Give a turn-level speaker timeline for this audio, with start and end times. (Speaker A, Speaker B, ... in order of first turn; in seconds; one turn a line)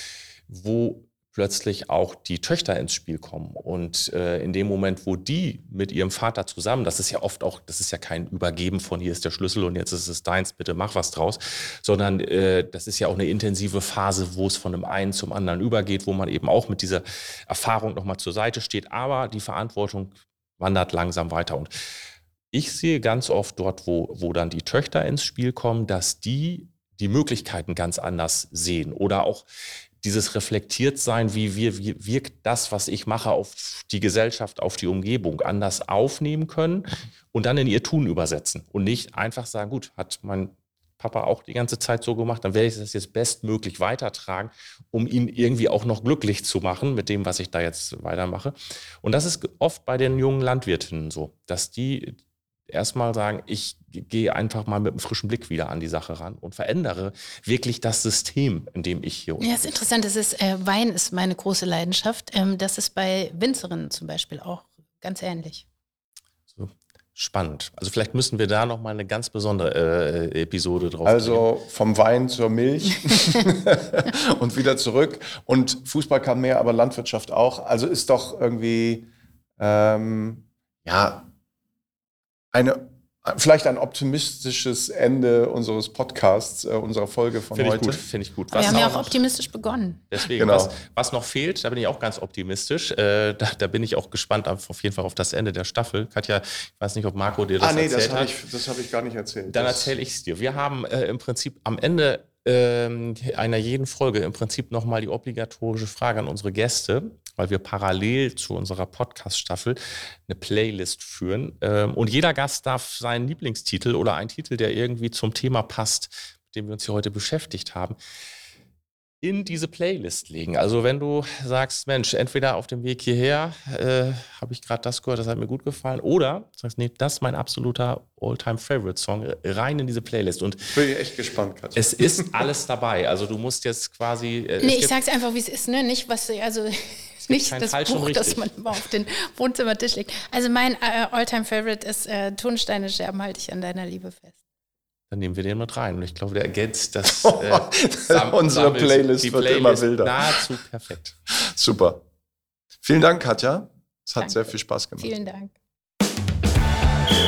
Speaker A: 0.5-21.7
Speaker A: 22.5-29.5
Speaker A: 30.0-52.2
Speaker A: 52.7-59.7
Speaker B: 59.4-65.7
Speaker A: 66.5-71.5
Speaker C: 71.0-81.3
Speaker C: 82.5-88.0
Speaker A: 87.5-89.2
Speaker B: 88.5-90.0
Speaker C: 88.6-88.9
Speaker A: 90.1-98.3
Speaker C: 90.4-90.8
Speaker C: 97.6-99.9
Speaker A: 99.5-118.0
Speaker A: 119.2-130.6
Speaker C: 130.7-132.5
Speaker A: 131.8-134.9
Speaker B: 134.6-144.3
Speaker A: 137.3-138.5
Speaker A: 145.1-151.2
Speaker C: 147.2-150.4
Speaker C: 151.4-152.0
Speaker C: 152.8-155.1
Speaker B: 154.2-155.6